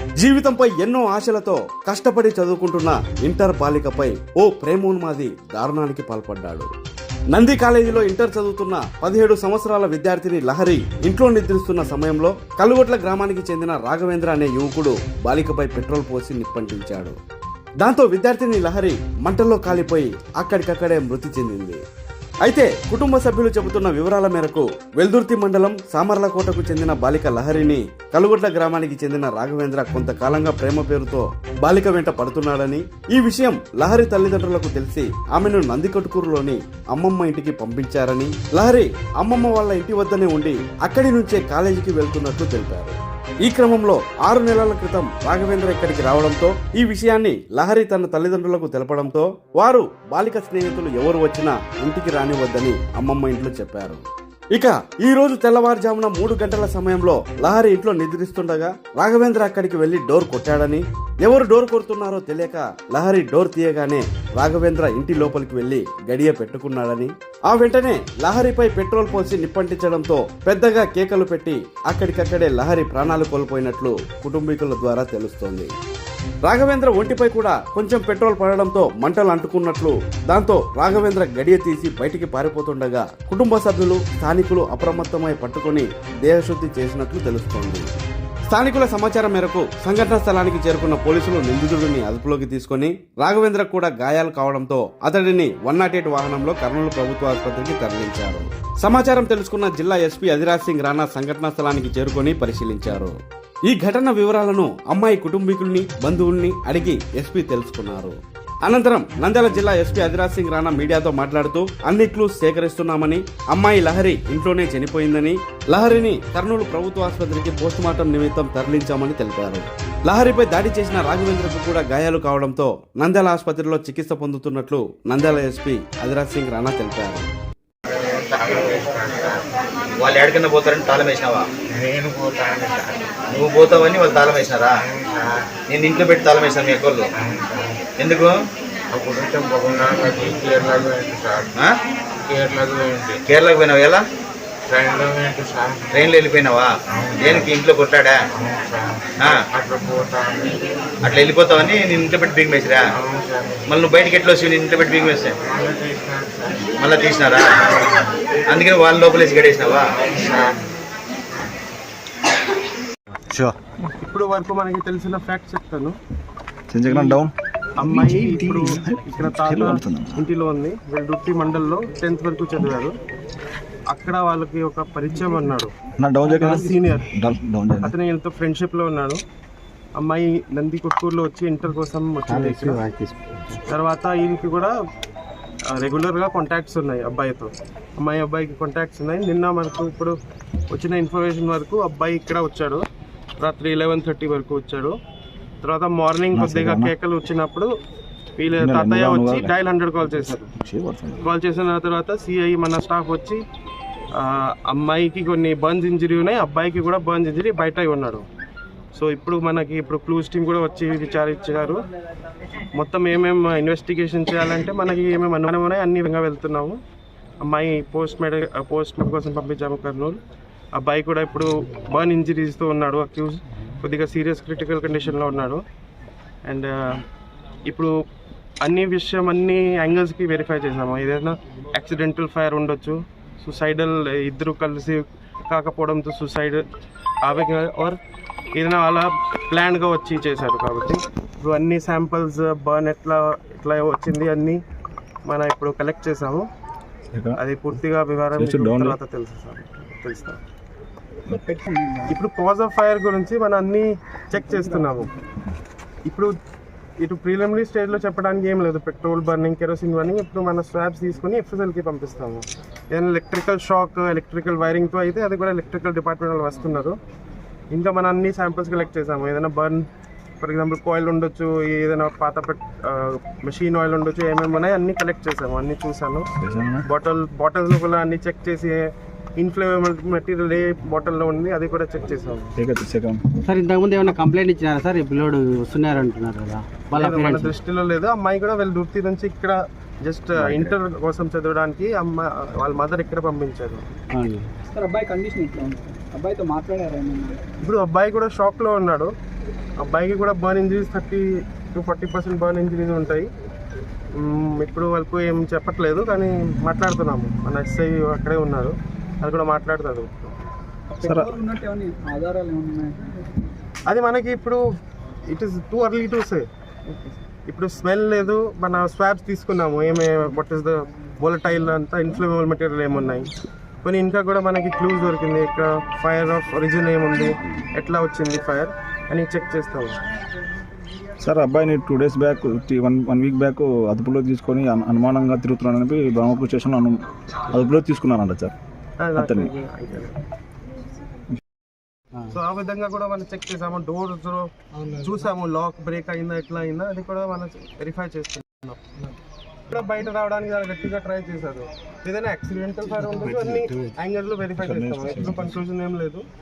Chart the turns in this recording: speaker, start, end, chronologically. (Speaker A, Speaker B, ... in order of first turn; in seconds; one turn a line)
Speaker A: 0.2-6.7
Speaker A: 7.3-17.1
Speaker A: 17.8-21.8
Speaker A: 22.4-54.0
Speaker A: 54.5-75.7
Speaker A: 76.5-87.8
Speaker A: 88.5-103.1
Speaker A: 103.7-127.3
Speaker B: 128.1-129.4
Speaker C: 130.0-131.5
Speaker B: 131.7-133.1
Speaker C: 133.3-134.8
Speaker B: 134.9-135.5
Speaker C: 135.7-137.1
Speaker B: 137.2-137.8
Speaker C: 138.0-138.4
Speaker B: 138.9-141.5
Speaker B: 142.2-143.2
Speaker C: 143.3-144.0
Speaker B: 144.7-145.8
Speaker C: 145.9-148.2
Speaker B: 146.9-147.5
Speaker B: 148.4-150.6
Speaker C: 149.2-149.4
Speaker C: 151.0-152.9
Speaker B: 153.0-153.7
Speaker C: 153.7-155.4
Speaker B: 155.4-156.7
Speaker C: 156.8-157.5
Speaker B: 157.7-158.1
Speaker C: 158.5-159.9
Speaker B: 160.0-160.7
Speaker D: 164.0-166.0
Speaker E: 166.7-170.2
Speaker D: 166.9-167.2
Speaker D: 167.8-172.9
Speaker D: 173.9-175.7
Speaker E: 176.0-177.9
Speaker D: 176.3-177.1
Speaker D: 177.8-179.2
Speaker D: 180.0-182.8
Speaker F: 182.4-183.2
Speaker D: 183.7-184.7
Speaker D: 185.7-190.2
Speaker D: 190.7-192.8
Speaker D: 193.4-194.9
Speaker D: 195.6-197.7
Speaker E: 196.3-196.9
Speaker D: 198.4-200.5
Speaker E: 198.5-201.3
Speaker D: 201.2-203.4
Speaker D: 204.2-208.2
Speaker D: 209.0-211.8
Speaker D: 212.8-216.8
Speaker D: 217.5-220.2
Speaker D: 220.8-225.6
Speaker D: 226.4-226.9
Speaker D: 228.6-236.6
Speaker D: 237.2-238.0
Speaker D: 238.6-244.6
Speaker D: 245.3-246.5
Speaker E: 247.1-247.4
Speaker D: 247.4-250.4
Speaker E: 248.3-249.0
Speaker G: 251.3-252.1
Speaker D: 252.1-255.1
Speaker G: 254.4-255.0
Speaker D: 256.1-256.3
Speaker D: 257.0-267.0
Speaker D: 267.7-269.9
Speaker D: 270.4-276.3
Speaker E: 276.4-276.9
Speaker D: 276.9-278.9
Speaker D: 279.4-282.5
Speaker E: 282.6-283.2
Speaker F: 283.4-287.5
Speaker D: 286.9-293.9
Speaker E: 290.4-290.7
Speaker F: 294.1-294.5
Speaker G: 294.7-297.4
Speaker D: 297.6-299.1
Speaker D: 299.8-303.3
Speaker D: 304.2-310.3
Speaker G: 310.9-313.5
Speaker E: 311.1-311.3
Speaker D: 313.9-314.6
Speaker D: 315.3-323.3
Speaker D: 323.8-330.0
Speaker E: 331.2-338.6
Speaker D: 339.0-340.2
Speaker E: 339.2-339.5
Speaker D: 342.3-344.5
Speaker D: 345.0-349.1
Speaker D: 349.7-356.2
Speaker E: 354.6-355.6